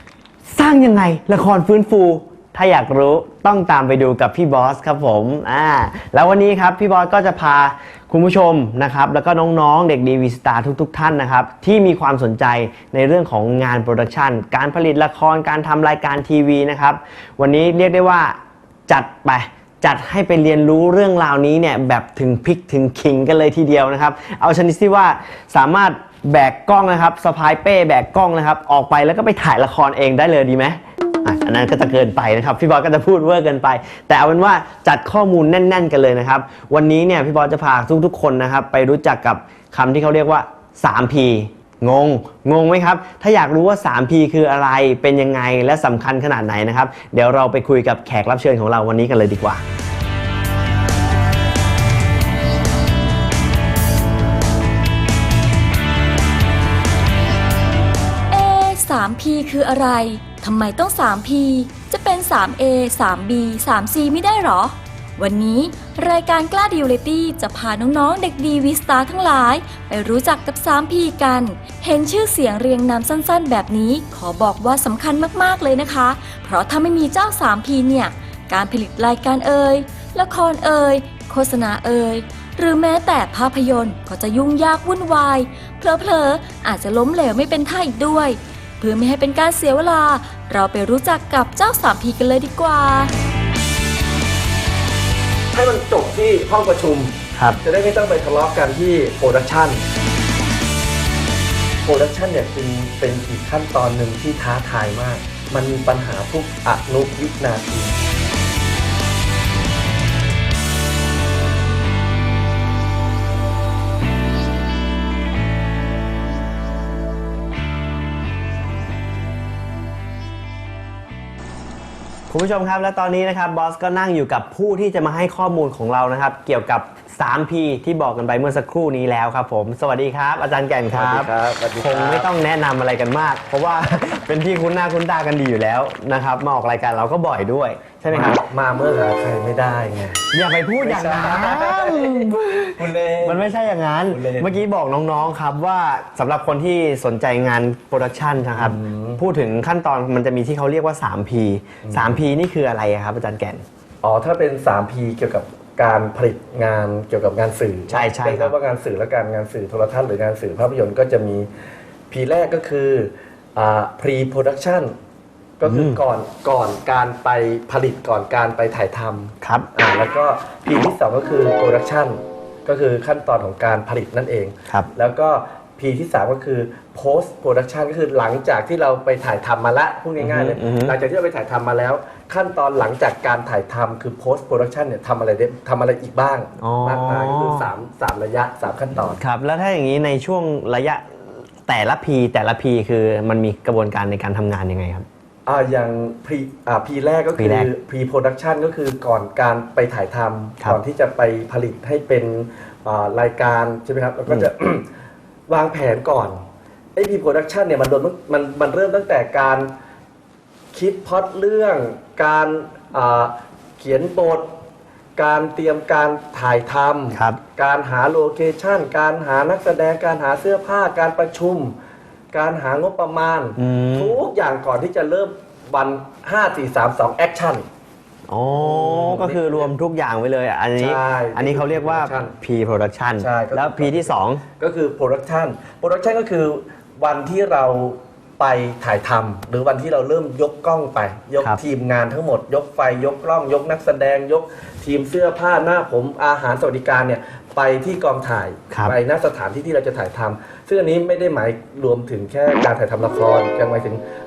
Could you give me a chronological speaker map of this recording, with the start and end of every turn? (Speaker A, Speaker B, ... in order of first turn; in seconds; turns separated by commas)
Speaker A: 0.5-49.6, Speaker B: 58.3-93.1, Speaker C: 95.5-99.8, Speaker A: 97.3-97.6, Speaker C: 101.8-107.9, Speaker A: 122.3-138.4, Speaker C: 130.9-132.3, Speaker C: 138.1-140.2, Speaker A: 140.3-153.6, Speaker C: 140.8-143.5, Speaker C: 144.1-144.6, Speaker C: 148.5-149.2, Speaker C: 151.8-152.2, Speaker C: 154.0-161.5, Speaker A: 157.9-158.5, Speaker C: 162.1-164.9, Speaker C: 165.6-189.2, Speaker A: 165.7-166.0, Speaker A: 169.4-169.7, Speaker A: 180.2-181.0, Speaker A: 186.6-187.7, Speaker A: 189.2-195.1, Speaker C: 195.5-204.9, Speaker A: 197.4-197.7, Speaker C: 205.5-206.4, Speaker C: 207.0-209.7, Speaker C: 210.7-214.5, Speaker C: 215.2-221.8, Speaker A: 217.1-217.4, Speaker C: 222.3-227.7, Speaker A: 223.6-224.2, Speaker A: 228.3-234.4, Speaker C: 228.6-229.7, Speaker C: 230.8-232.3, Speaker C: 233.2-254.0, Speaker A: 248.7-249.0